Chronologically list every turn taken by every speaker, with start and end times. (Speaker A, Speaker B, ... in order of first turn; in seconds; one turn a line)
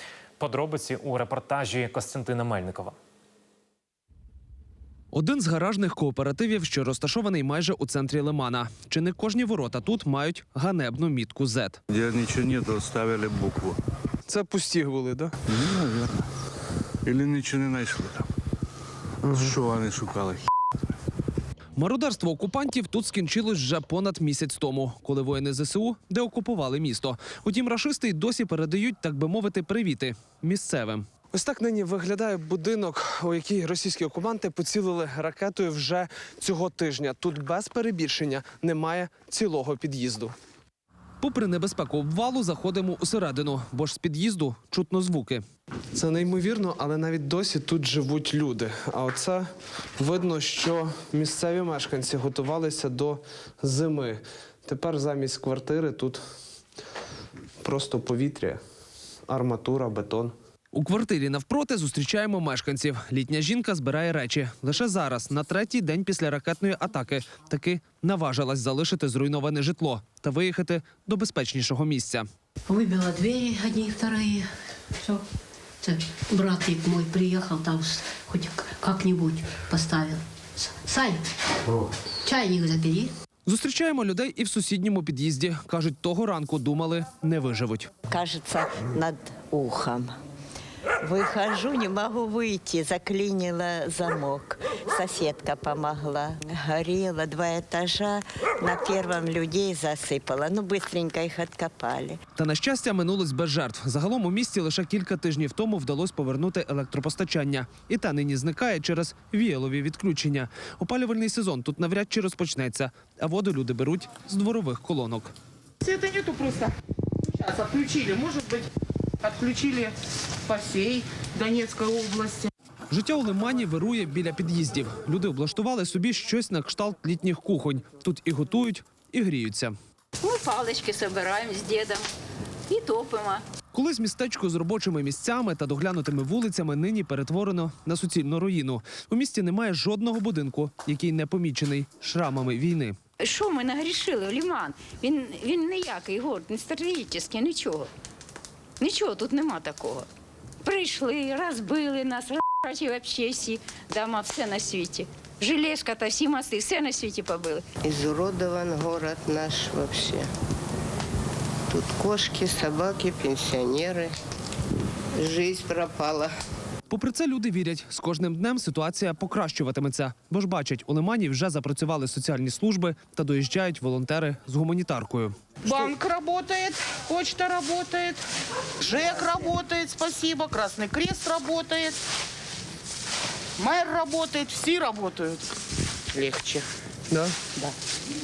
Speaker A: 0.4-3.0
Speaker B: 5.1-11.8
Speaker C: 11.9-13.8
Speaker B: 14.3-15.3
Speaker C: 15.5-16.3
Speaker C: 17.0-18.3
Speaker C: 19.2-20.4
Speaker B: 21.8-40.3
Speaker B: 41.2-45.4
Speaker B: 45.9-49.5
Speaker B: 50.0-56.2
Speaker B: 57.6-58.6
Speaker B: 59.3-72.2
Speaker D: 72.7-74.5
Speaker D: 75.8-81.2
Speaker D: 82.2-83.1
Speaker B: 83.5-87.9
Speaker E: 88.1-90.1
Speaker E: 91.0-102.2
Speaker B: 102.3-115.3
Speaker F: 115.8-116.7
Speaker F: 117.2-118.7
Speaker F: 119.2-122.5
Speaker B: 122.9-129.7
Speaker G: 130.2-132.1
Speaker G: 132.7-133.4
Speaker B: 133.7-143.0
Speaker G: 143.2-147.9
Speaker G: 148.8-150.1
Speaker G: 150.6-157.6
Speaker H: 158.0-160.3
Speaker H: 161.8-164.1
Speaker H: 165.2-166.3
Speaker B: 166.9-175.9
Speaker F: 175.6-178.2
Speaker F: 178.8-182.0
Speaker F: 183.6-185.5
Speaker F: 186.1-186.7
Speaker B: 187.1-187.4